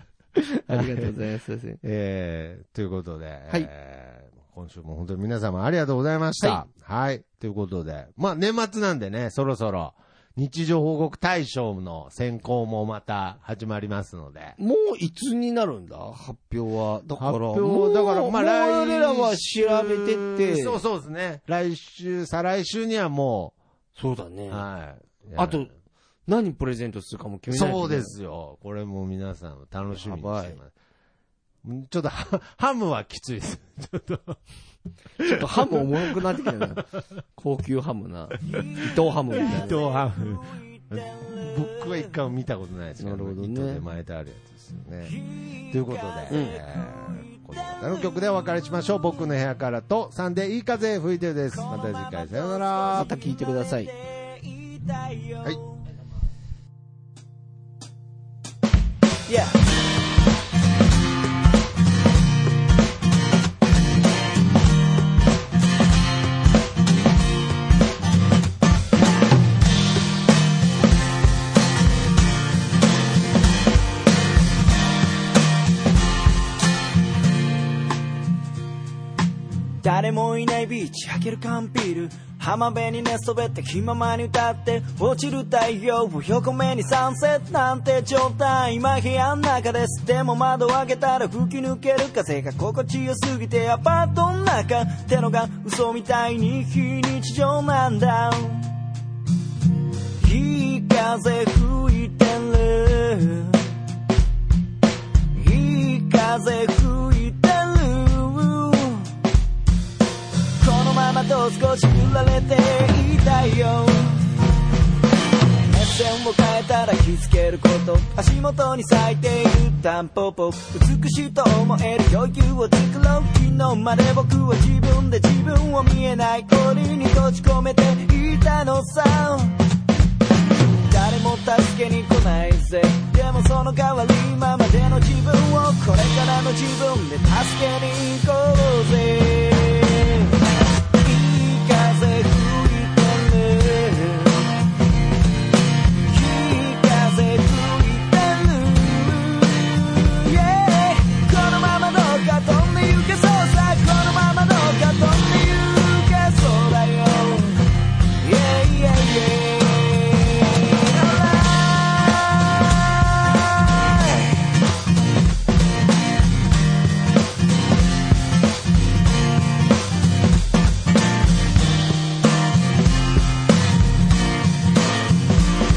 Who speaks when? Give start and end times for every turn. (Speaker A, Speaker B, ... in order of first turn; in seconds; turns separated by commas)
Speaker A: 0.3-1.8, Speaker B: 0.7-1.1, Speaker B: 1.8-14.6, Speaker A: 6.4-6.7, Speaker A: 14.6-20.8, Speaker B: 17.2-23.5, Speaker A: 23.9-24.6, Speaker B: 24.5-25.6, Speaker A: 25.4-25.7, Speaker A: 26.3-28.1, Speaker B: 27.5-30.7, Speaker A: 29.9-30.6, Speaker B: 31.6-34.4, Speaker B: 35.2-36.9, Speaker A: 35.2-36.8, Speaker A: 37.4-39.8, Speaker C: 38.5-42.2, Speaker B: 39.4-45.2, Speaker A: 43.0-43.8, Speaker C: 45.0-48.2, Speaker B: 45.7-53.1, Speaker A: 46.3-46.6, Speaker C: 51.5-55.9, Speaker A: 52.9-53.9, Speaker C: 59.3-59.6, Speaker C: 79.8-98.7, Speaker C: 100.2-103.7, Speaker C: 105.3-109.2, Speaker C: 110.6-114.3, Speaker C: 115.6-129.6, Speaker C: 130.7-140.3, Speaker C: 141.0-144.5, Speaker C: 146.1-164.4